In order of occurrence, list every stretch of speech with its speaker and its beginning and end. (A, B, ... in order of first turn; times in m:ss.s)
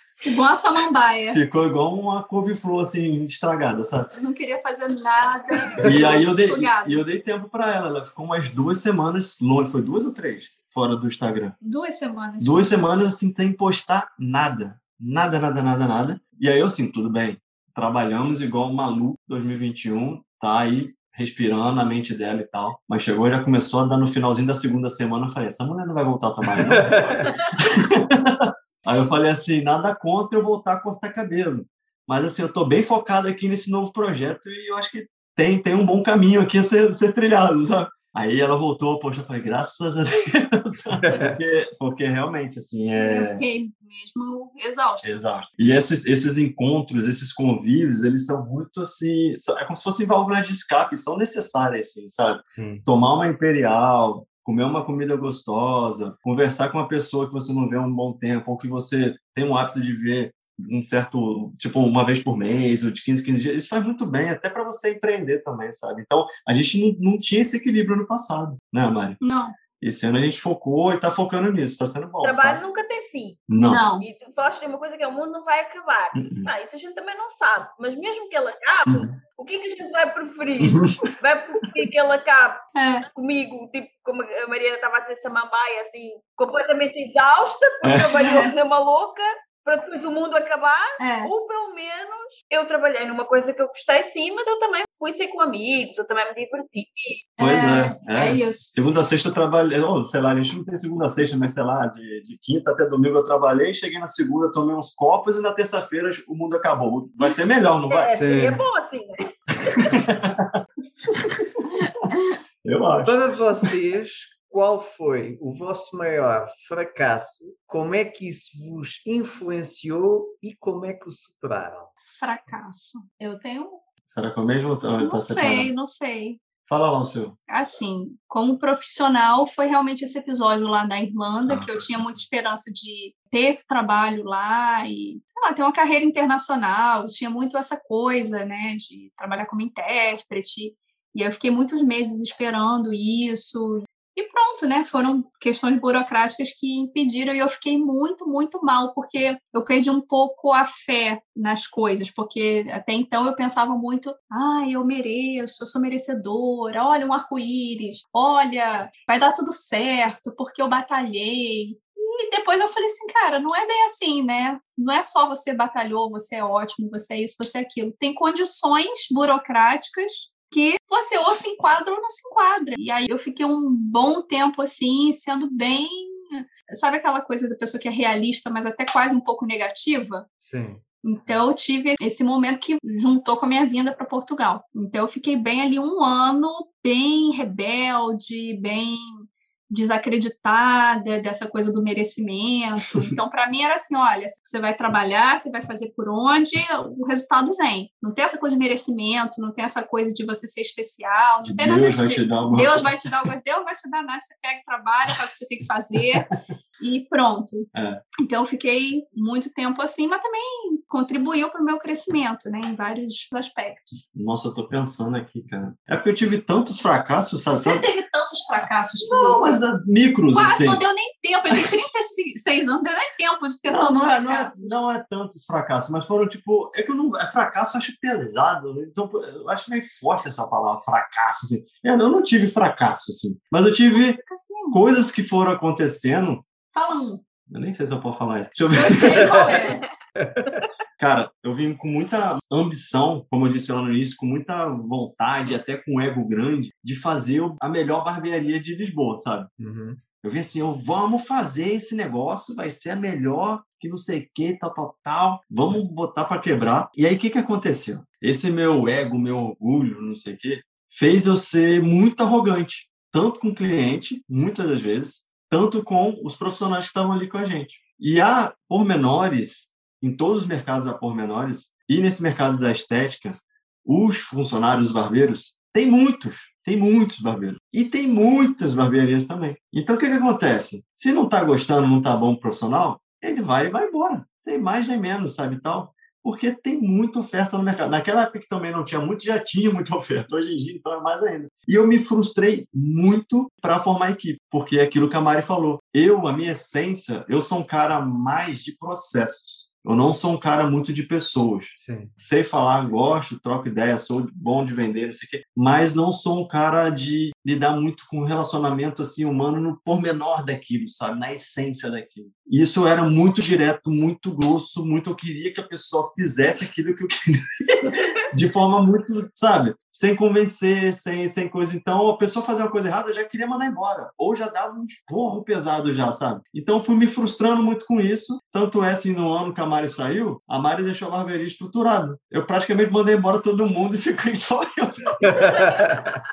0:00.2-0:01.4 A
0:01.3-0:04.1 B
0:04.1-0:07.0 A
0:05.8-0:11.5 B
0:11.6-0:12.7 A
0:12.4-0:43.4 B
0:26.5-0:27.3 C
0:41.0-0:41.4 C
0:43.0-0:45.1 A
0:45.0-1:09.2 B
0:52.5-0:52.8 C
1:09.2-1:09.5 A
1:09.8-1:12.6 B
1:12.2-1:37.2 D
1:13.5-1:13.9 B
1:13.6-1:14.0 A
1:16.1-1:16.5 B
1:18.9-1:19.1 B
1:20.6-1:21.0 B
1:22.7-1:23.0 A
1:27.8-1:28.4 B
1:28.2-1:28.5 A
1:31.0-1:31.3 A
1:37.4-1:38.7 A
1:37.4-1:48.1 B
1:47.9-1:50.0 D
1:48.1-1:48.6 C
1:49.8-1:52.1 B
1:51.8-1:52.4 A
1:52.6-1:53.7 B
1:53.0-2:01.9 C
2:02.2-2:03.8 A
2:04.1-2:05.7 B
2:05.0-2:06.4 A
2:06.6-2:07.4 B
2:07.5-3:00.2 A
2:11.5-2:12.2 B
3:00.4-3:00.8 C
3:01.0-3:26.3 A
3:21.4-3:23.0 B
3:26.8-3:27.7 A
3:27.7-3:28.0 B
3:28.2-3:34.0 A
3:34.1-3:37.8 B
3:37.5-3:39.6 A
3:39.0-3:40.8 B
3:40.3-3:44.7 A
3:43.7-3:56.4 B
3:53.9-3:54.8 A
3:56.7-3:57.2 A
3:57.5-3:59.8 B
3:58.7-3:59.8 A
3:59.1-3:59.6 C
4:00.2-4:00.7 C
4:01.0-4:09.5 B
4:09.6-4:10.0 C
4:10.2-5:35.9 B
5:01.8-5:02.1 C
5:35.2-5:36.2 C